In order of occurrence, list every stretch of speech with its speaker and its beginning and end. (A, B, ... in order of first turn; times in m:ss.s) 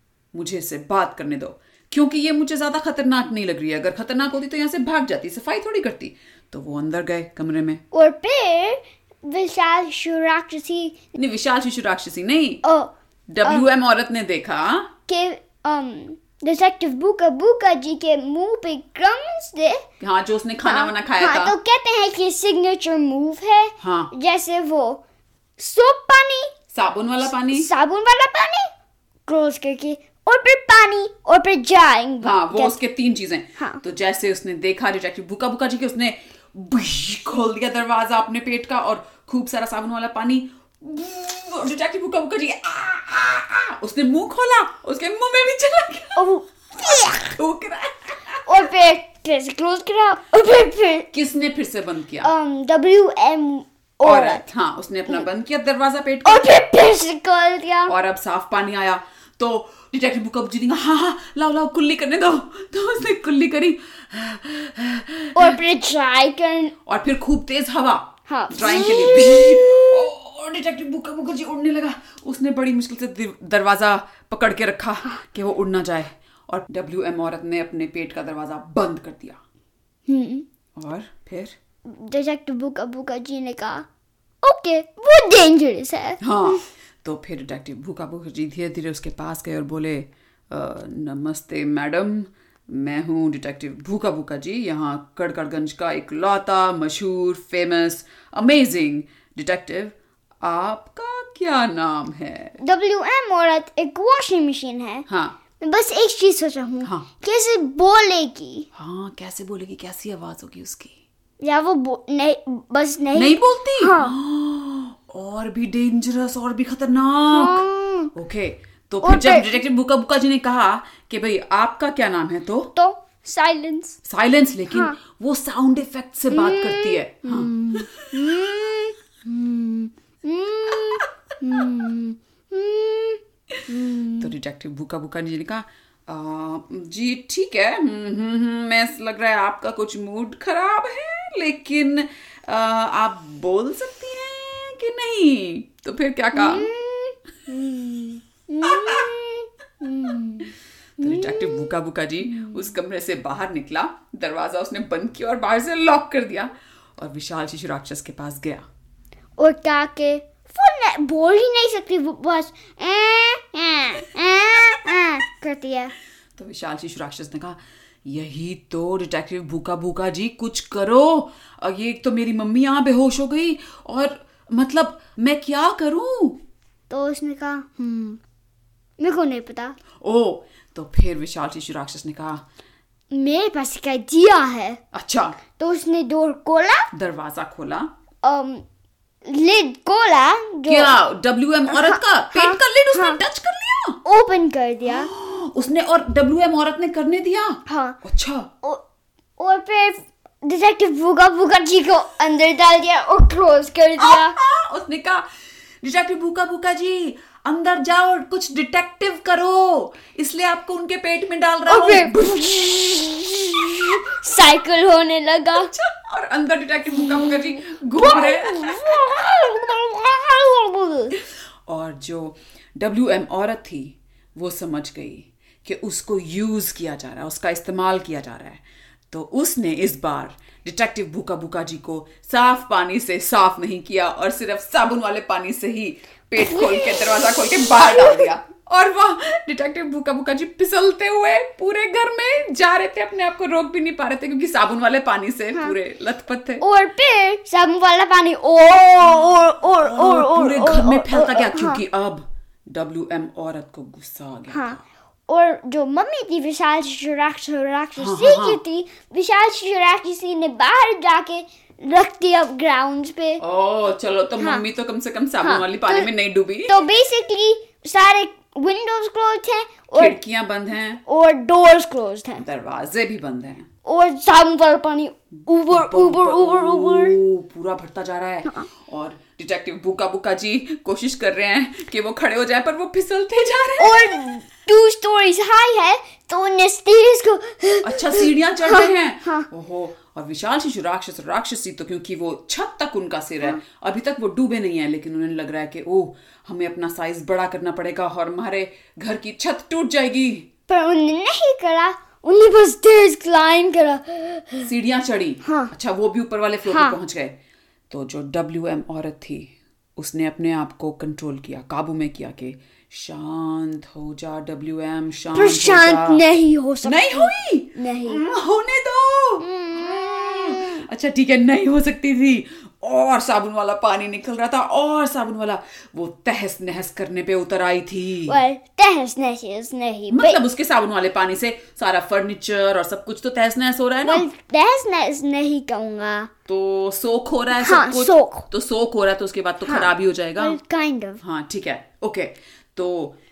0:00.3-0:07.8 A
0:07.9-0:11.0 B
0:11.1-0:12.6 A
0:12.6-0:12.9 B
0:13.3-0:14.9 A
0:15.1-0:19.8 B
0:20.0-0:21.5 A
0:20.6-0:25.0 B
0:23.8-0:24.1 A
0:25.6-0:26.5 B
0:26.7-0:27.7 A
0:27.4-0:28.7 B
0:29.3-0:32.8 B
0:32.2-0:46.3 A
0:33.6-0:33.8 B
0:46.2-0:47.4 B
0:47.2-0:48.7 A
0:48.4-0:51.1 B
0:51.1-0:52.3 A
0:52.2-0:54.4 B
0:54.0-0:56.5 A
0:56.2-0:57.9 B
0:57.9-1:05.6 A
1:05.4-1:06.7 B
1:06.9-1:19.4 A
1:08.3-1:09.9 B
1:20.1-1:20.4 B
1:20.8-1:21.6 A
1:21.9-1:23.9 B
1:24.4-1:26.6 B
1:26.2-1:42.6 A
1:42.6-1:45.0 B
1:45.1-1:45.4 A
1:45.6-1:48.7 B
1:48.8-1:51.0 A
1:51.4-1:54.1 B
1:53.1-2:02.7 A
1:57.3-1:58.1 B
1:59.0-1:59.6 B
2:02.8-2:04.0 B
2:04.0-2:08.5 A
2:04.7-2:05.0 B
2:06.3-2:14.3 B
2:14.2-2:26.7 A
2:26.3-2:31.7 B
2:28.6-2:29.0 A
2:31.0-2:38.6 A
2:32.2-2:32.7 B
2:39.4-2:46.0 B
2:46.4-2:56.4 A
2:56.9-2:58.2 B
2:59.0-2:59.8 B
3:00.0-3:02.4 A
3:03.1-3:04.8 B
3:04.9-3:05.4 A
3:05.6-3:06.9 B
3:06.9-3:07.9 A
3:08.2-3:08.6 B
3:09.2-3:10.9 B
3:10.7-3:14.0 A
3:11.7-3:13.2 B
3:14.0-3:15.1 B
3:14.9-3:18.5 A
3:17.7-3:18.0 B
3:19.4-3:24.4 B
3:24.0-3:25.2 A
3:25.8-3:34.0 A
3:31.7-3:35.7 B
3:35.5-3:39.3 A
3:37.0-3:41.2 B
3:41.6-4:06.6 A
3:56.4-3:58.3 B
4:06.6-4:11.8 B
4:09.1-4:14.8 A
4:14.5-4:23.4 B
4:18.0-4:18.6 A
4:23.4-4:26.8 A
4:25.4-4:26.1 B
4:26.7-4:30.2 B
4:30.0-4:31.0 A
4:31.0-4:32.4 B
4:32.4-4:33.7 A
4:33.8-4:37.2 B
4:35.7-4:44.0 A
4:43.8-4:49.5 B
4:47.8-5:00.5 A
5:00.7-5:04.7 B
5:04.6-5:07.4 A
5:05.4-5:05.7 B
5:06.7-5:07.0 B
5:07.9-5:16.2 A
5:15.4-5:18.2 B
5:16.8-5:28.4 A
5:19.4-5:20.9 B
5:28.3-5:30.4 B
5:30.1-5:34.3 A
5:34.0-5:36.3 B
5:36.5-5:40.6 A
5:37.6-5:38.5 B
5:39.6-5:41.2 B
5:41.2-5:43.2 A